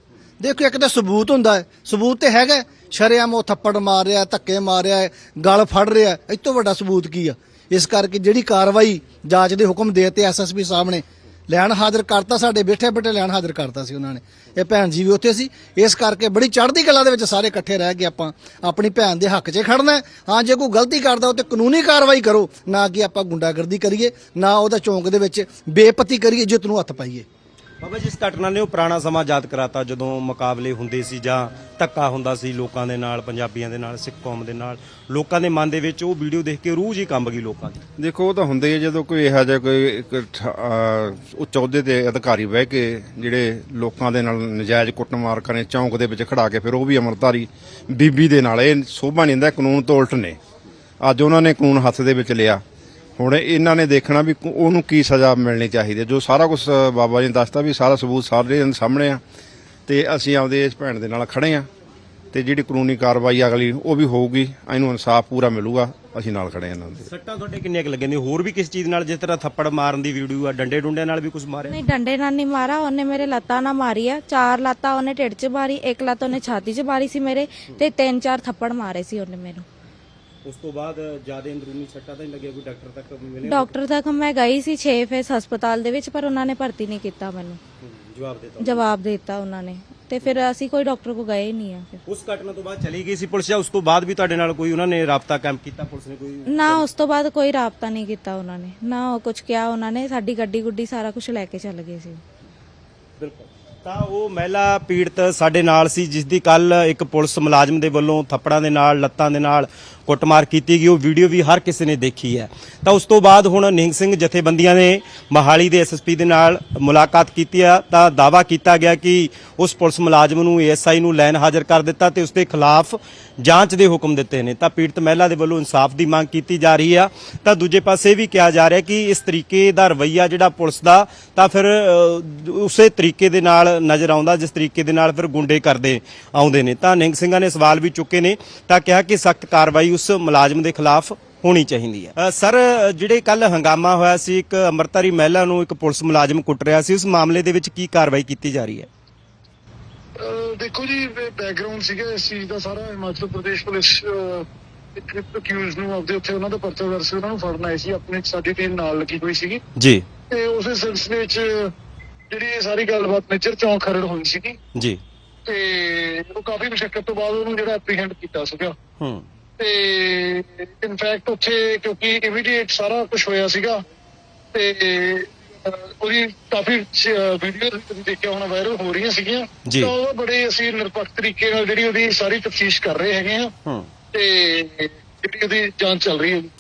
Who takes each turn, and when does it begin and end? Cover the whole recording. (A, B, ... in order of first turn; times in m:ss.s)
0:00.4-0:27.2 A
0:27.8-0:37.8 B
0:38.0-0:50.4 C
0:51.0-0:52.6 C
0:53.2-0:59.2 C
0:59.9-1:01.7 C
1:02.3-1:07.1 C
1:07.0-1:11.8 B
1:11.7-1:19.6 D
1:20.4-1:23.7 B
1:23.4-1:27.6 D
1:27.8-1:28.8 B
1:28.6-1:32.0 D
1:32.0-1:36.8 B
1:36.5-1:42.2 D
1:43.2-2:28.9 B
2:30.2-2:39.6 E
2:39.8-2:40.0 B
2:40.3-2:41.7 E
2:42.3-2:44.6 E
2:45.4-2:48.8 E
2:49.0-2:49.2 B
2:49.6-2:53.8 E
2:54.5-3:03.5 E
2:59.7-2:59.9 B
3:04.1-3:06.5 E